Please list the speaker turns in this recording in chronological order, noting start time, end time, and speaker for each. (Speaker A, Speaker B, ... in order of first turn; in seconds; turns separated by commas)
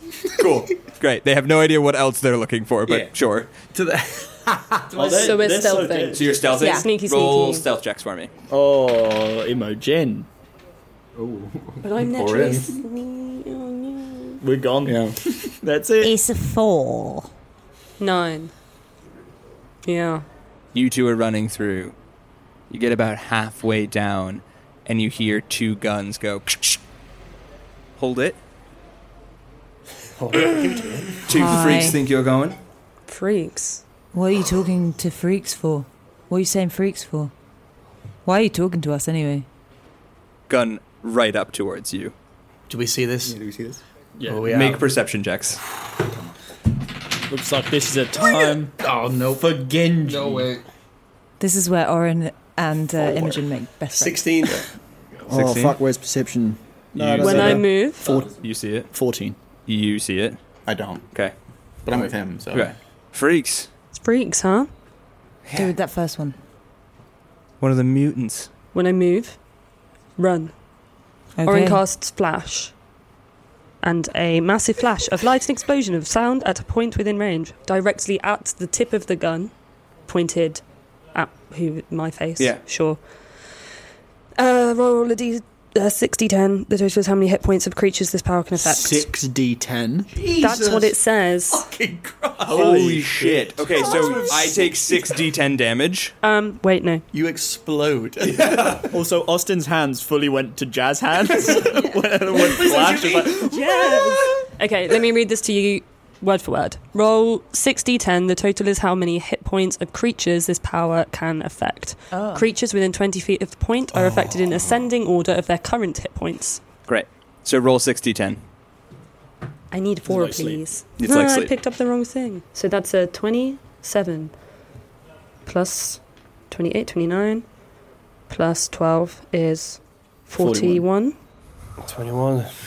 Speaker A: 0.3-3.5, Speaker B: 3.7-5.4, Speaker C: 4.9-6.3, Speaker D: 5.1-7.7, Speaker A: 6.1-8.3, Speaker E: 6.6-6.9, Speaker C: 8.5-10.3, Speaker F: 11.2-12.8, Speaker D: 11.8-14.4, Speaker C: 14.4-16.1, Speaker F: 14.8-15.2, Speaker E: 16.0-17.3, Speaker D: 18.0-18.5, Speaker D: 19.9-20.2, Speaker A: 20.7-21.9, Speaker A: 22.7-26.8, Speaker A: 28.0-28.4, Speaker B: 30.2-31.3, Speaker A: 31.3-32.6, Speaker E: 31.3-32.0, Speaker D: 33.1-33.8, Speaker E: 34.1-37.3, Speaker E: 38.2-39.5, Speaker A: 40.5-42.1, Speaker B: 42.7-43.4, Speaker F: 43.2-43.8, Speaker C: 44.2-44.4, Speaker B: 44.3-44.9, Speaker A: 44.5-45.6, Speaker C: 47.3-48.8, Speaker F: 48.5-49.5, Speaker C: 49.4-50.5, Speaker B: 50.2-50.6, Speaker E: 51.4-54.5, Speaker B: 53.9-54.7, Speaker C: 55.3-58.3, Speaker A: 55.3-55.8, Speaker A: 57.0-57.8, Speaker D: 57.2-58.1, Speaker F: 58.0-58.4, Speaker A: 58.4-58.9, Speaker C: 58.9-59.4, Speaker A: 59.7-60.4, Speaker F: 60.7-61.0, Speaker F: 61.8-62.7, Speaker A: 62.5-63.7, Speaker D: 63.9-64.7, Speaker A: 65.5-65.7, Speaker E: 65.5-66.4, Speaker A: 67.6-68.5, Speaker D: 68.7-69.4, Speaker D: 70.2-70.5, Speaker E: 71.4-71.8, Speaker D: 71.4-72.7, Speaker D: 73.8-79.5, Speaker D: 80.1-80.6, Speaker D: 81.1-83.5, Speaker D: 84.4-89.1, Speaker C: 88.5-90.2, Speaker B: 90.1-91.0, Speaker D: 90.4-91.7, Speaker B: 91.5-93.0, Speaker C: 92.5-94.3, Speaker A: 92.5-96.1, Speaker B: 93.8-94.7, Speaker D: 96.2-97.0, Speaker B: 97.1-98.8, Speaker A: 98.3-98.9, Speaker C: 98.9-103.8, Speaker B: 102.3-103.3, Speaker D: 102.4-116.6, Speaker E: 112.1-112.5, Speaker A: 116.9-118.4, Speaker D: 119.7-124.3, Speaker C: 120.1-120.6, Speaker A: 121.0-121.5, Speaker D: 125.5-127.5, Speaker D: 128.3-131.2, Speaker C: 130.4-130.8, Speaker B: 131.8-132.5